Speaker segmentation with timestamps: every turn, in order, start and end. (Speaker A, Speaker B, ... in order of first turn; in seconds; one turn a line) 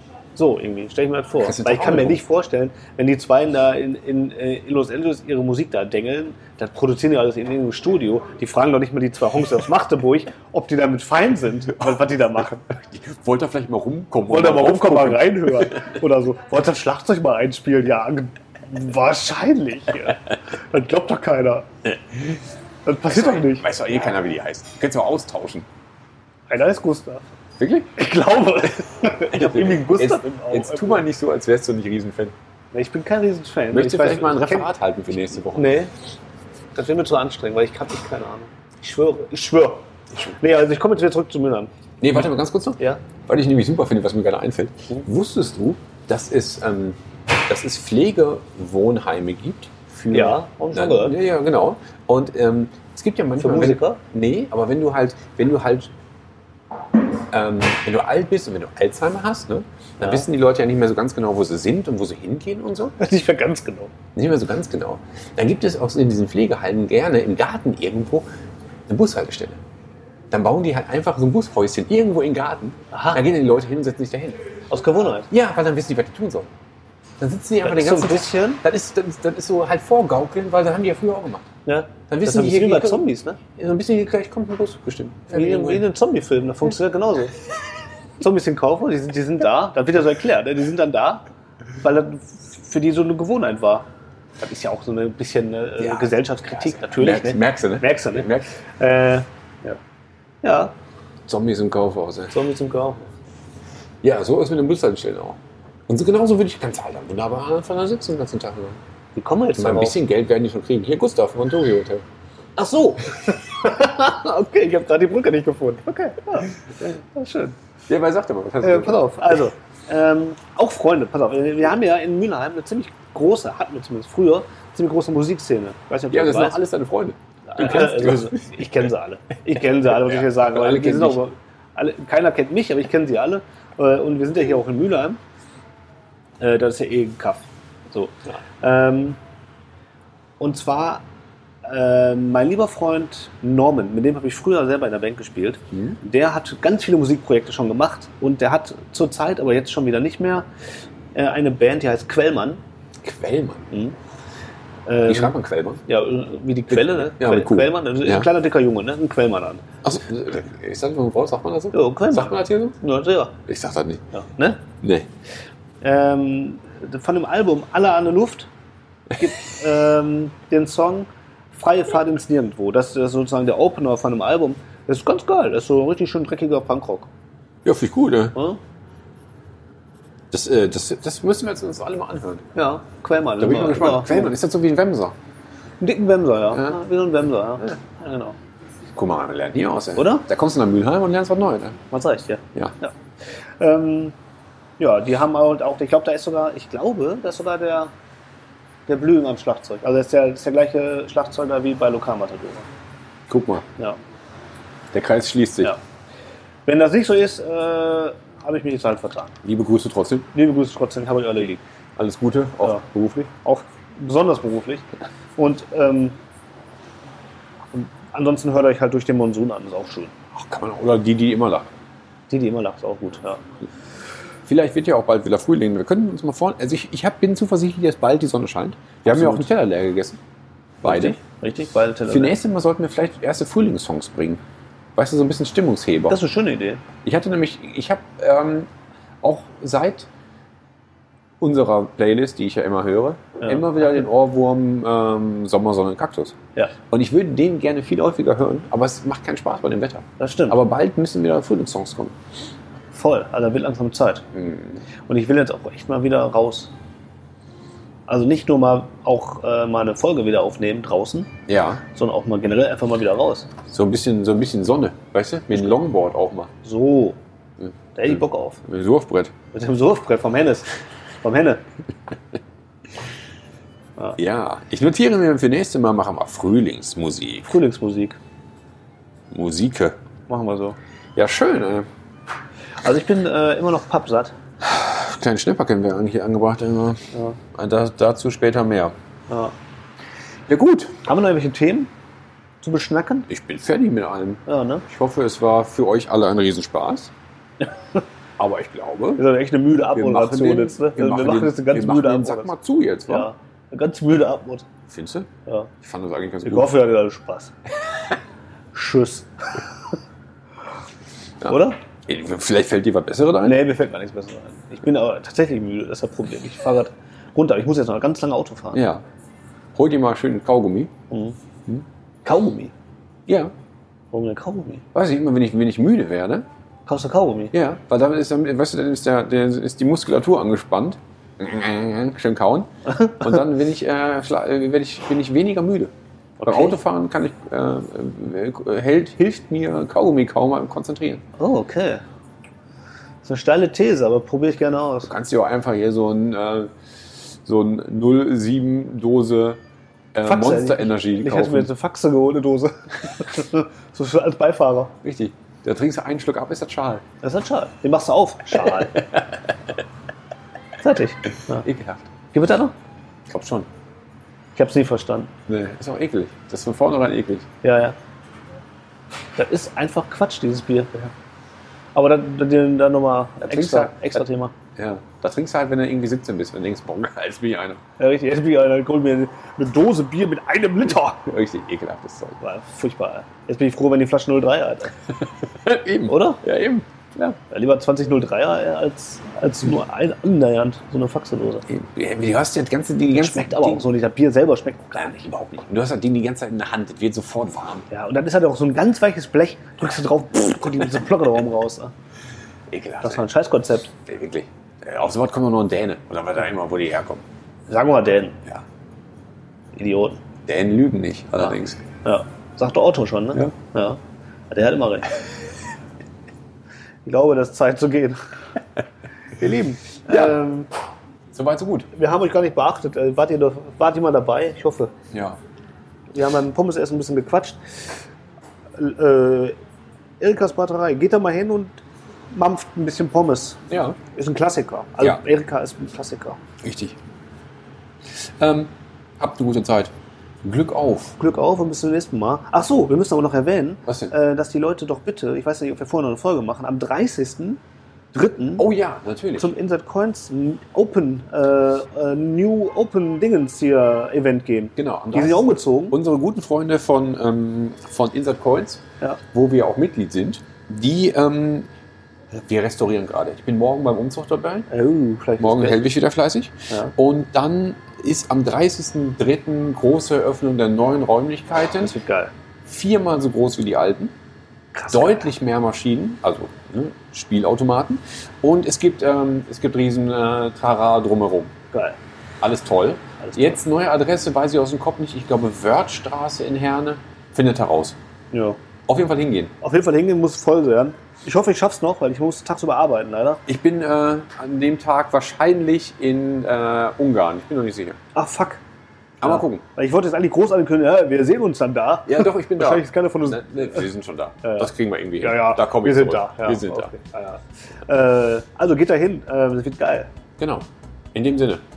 Speaker A: 0.4-12.7
Speaker B: 1.4-2.2
Speaker B: 12.7-15.8
Speaker A: 14.3-21.7
Speaker B: 21.9-22.4
Speaker A: 22.9-23.6
Speaker B: 23.1-25.7
Speaker A: 26.5-27.3
Speaker B: 27.6-27.9
Speaker A: 28.0-31.1
Speaker B: 29.3-32.4
Speaker A: 32.7-34.7
Speaker B: 33.7-35.8
Speaker A: 35.5-35.9
Speaker A: 36.8-39.9
Speaker A: 40.4-41.7
Speaker B: 42.0-55.9
Speaker A: 50.1-51.2
Speaker A: 53.4-54.0
Speaker B: 57.3-63.0
Speaker A: 63.0-63.9
Speaker B: 64.2-68.3
Speaker B: 68.9-69.6
Speaker B: 70.3-74.4
Speaker A: 72.9-73.2
Speaker A: 74.7-75.3
Speaker B: 75.3-76.5
Speaker B: 77.2-81.5
Speaker A: 77.6-78.6
Speaker A: 81.7-83.4
Speaker B: 82.1-85.9
Speaker A: 85.3-87.3
Speaker A: 88.2-91.2
Speaker A: 91.8-93.9
Speaker A: 94.4-99.8
Speaker B: 95.8-98.5
Speaker A: 100.4-100.7
Speaker B: 101.3-102.3
Speaker A: 102.3-103.1
Speaker B: 104.0-108.8
Speaker A: 109.2-110.0
Speaker B: 109.6-112.0
Speaker A: 112.6-117.6
Speaker B: 117.9-119.0
Speaker A: 118.6-126.6
Speaker B: 126.1-128.6
Speaker A: 127.5-135.2
Speaker B: 129.9-131.2
Speaker A: 136.4-139.2
Speaker A: 140.4-141.0
Speaker A: 141.7-150.5
Speaker B: 145.7-146.0
Speaker A: 151.2-152.6
Speaker B: 153.0-153.7
Speaker A: 153.7-154.0
Speaker A: 154.9-155.3
Speaker B: 155.1-155.8
Speaker A: 155.9-159.7
Speaker B: 156.7-158.3
Speaker B: 159.8-162.8
Speaker A: 161.7-163.4
Speaker B: 163.5-164.0
Speaker A: 164.1-164.6
Speaker B: 164.8-165.1
Speaker A: 165.8-168.5
Speaker A: 169.2-177.1
Speaker B: 177.7-178.4
Speaker A: 178.3-178.6
Speaker B: 180.3-182.5
Speaker A: 182.6-184.3
Speaker B: 183.4-185.2
Speaker A: 185.8-188.4
Speaker B: 186.5-186.8
Speaker B: 188.9-191.8
Speaker A: 190.0-190.3
Speaker A: 191.9-192.9
Speaker A: 193.6-194.1
Speaker A: 194.8-197.9
Speaker A: 198.9-202.7
Speaker B: 203.3-203.7
Speaker B: 204.9-205.7
Speaker A: 206.7-209.3
Speaker B: 209.4-210.3
Speaker A: 210.3-211.6
Speaker B: 212.0-213.3
Speaker A: 212.6-214.9
Speaker A: 215.4-216.2
Speaker A: 217.7-220.1
Speaker B: 220.3-221.7
Speaker A: 222.3-223.4
Speaker B: 224.5-230.2
Speaker A: 229.1-229.5
Speaker B: 230.8-231.2
Speaker A: 230.8-232.4
Speaker B: 232.1-234.4
Speaker B: 235.0-236.2
Speaker A: 236.1-236.8
Speaker B: 237.0-238.7
Speaker B: 239.2-240.1
Speaker B: 241.4-246.4
Speaker A: 243.4-243.7
Speaker B: 246.9-252.2
Speaker A: 250.2-250.6
Speaker A: 252.9-254.3
Speaker B: 254.3-254.8
Speaker A: 255.1-256.7
Speaker A: 258.1-261.3
Speaker B: 261.5-261.8
Speaker A: 261.9-263.5
Speaker B: 263.7-266.5
Speaker A: 266.6-267.2
Speaker B: 267.6-269.3
Speaker A: 267.9-268.6
Speaker A: 269.5-270.7
Speaker A: 271.2-271.6
Speaker B: 274.2-277.5
Speaker A: 277.5-278.2
Speaker B: 279.3-280.0
Speaker A: 280.3-280.8
Speaker B: 281.2-281.9
Speaker A: 282.8-284.3
Speaker B: 284.6-288.9
Speaker A: 287.1-287.4
Speaker A: 289.3-289.5
Speaker B: 290.5-291.0
Speaker A: 291.0-291.9
Speaker A: 292.6-293.3
Speaker B: 293.3-297.1
Speaker A: 294.5-294.9
Speaker A: 297.6-298.0
Speaker B: 298.4-299.2
Speaker A: 299.2-302.5
Speaker B: 299.9-303.3
Speaker A: 303.1-304.7
Speaker B: 304.9-305.3
Speaker A: 305.5-305.7
Speaker B: 305.8-306.8
Speaker A: 306.4-307.5
Speaker A: 308.7-310.0
Speaker B: 311.4-313.6
Speaker A: 311.5-311.8
Speaker A: 313.4-318.8
Speaker B: 318.7-319.0
Speaker B: 319.7-320.9
Speaker A: 321.1-321.4
Speaker A: 322.2-322.7
Speaker B: 323.3-323.5
Speaker A: 324.1-324.9
Speaker B: 324.9-326.5
Speaker A: 326.9-327.5
Speaker B: 327.5-335.9
Speaker A: 332.9-333.3
Speaker A: 336.4-336.8
Speaker B: 336.4-341.2
Speaker A: 341.4-342.0
Speaker A: 343.2-345.1
Speaker B: 345.1-346.7
Speaker B: 347.3-349.6
Speaker B: 350.1-351.7
Speaker A: 350.2-354.9
Speaker B: 355.0-357.0
Speaker A: 357.2-359.0
Speaker B: 358.9-359.5
Speaker A: 360.8-361.7
Speaker B: 361.6-362.1
Speaker A: 362.3-362.7
Speaker B: 363.3-363.7
Speaker A: 364.6-365.3
Speaker B: 365.5-367.5
Speaker A: 367.6-368.0
Speaker A: 369.4-371.1
Speaker A: 371.9-374.5
Speaker B: 373.4-374.2
Speaker B: 374.8-377.8
Speaker A: 378.0-381.2
Speaker B: 381.2-382.4
Speaker A: 382.4-385.0
Speaker B: 385.6-387.4
Speaker A: 386.1-386.4
Speaker A: 387.5-391.7
Speaker B: 391.7-393.8
Speaker A: 393.1-395.2
Speaker B: 395.0-397.9
Speaker A: 397.9-401.9
Speaker B: 402.7-403.2
Speaker A: 403.0-403.9
Speaker B: 404.1-407.2
Speaker A: 407.7-408.4
Speaker A: 409.7-410.2
Speaker B: 410.4-411.8
Speaker A: 411.4-414.0
Speaker A: 414.5-415.2
Speaker A: 417.1-418.2
Speaker A: 419.4-420.7
Speaker B: 420.1-420.4
Speaker B: 421.3-421.9
Speaker A: 421.9-424.9
Speaker B: 425.1-425.4
Speaker A: 426.1-427.6
Speaker A: 428.8-429.6
Speaker A: 430.2-431.8
Speaker A: 432.3-433.6
Speaker B: 433.7-434.0
Speaker A: 434.1-436.4
Speaker B: 436.6-437.0
Speaker B: 438.1-439.9
Speaker B: 440.4-441.2
Speaker A: 441.2-447.6
Speaker B: 443.9-444.1
Speaker A: 448.1-448.6
Speaker B: 448.6-449.6
Speaker A: 449.4-456.0
Speaker B: 454.8-461.7
Speaker B: 462.3-464.7
Speaker A: 464.7-465.9
Speaker B: 465.4-471.9
Speaker A: 471.8-472.3
Speaker B: 472.6-474.1
Speaker A: 474.7-475.3
Speaker B: 474.9-481.5
Speaker A: 481.7-482.0
Speaker B: 482.4-488.0
Speaker A: 483.2-483.6
Speaker A: 488.3-488.6
Speaker B: 488.9-489.5
Speaker A: 489.6-493.4
Speaker B: 493.5-498.0
Speaker A: 498.1-498.6
Speaker B: 499.2-499.6
Speaker A: 499.2-503.9
Speaker B: 502.1-506.9
Speaker A: 504.4-510.1
Speaker B: 510.4-511.6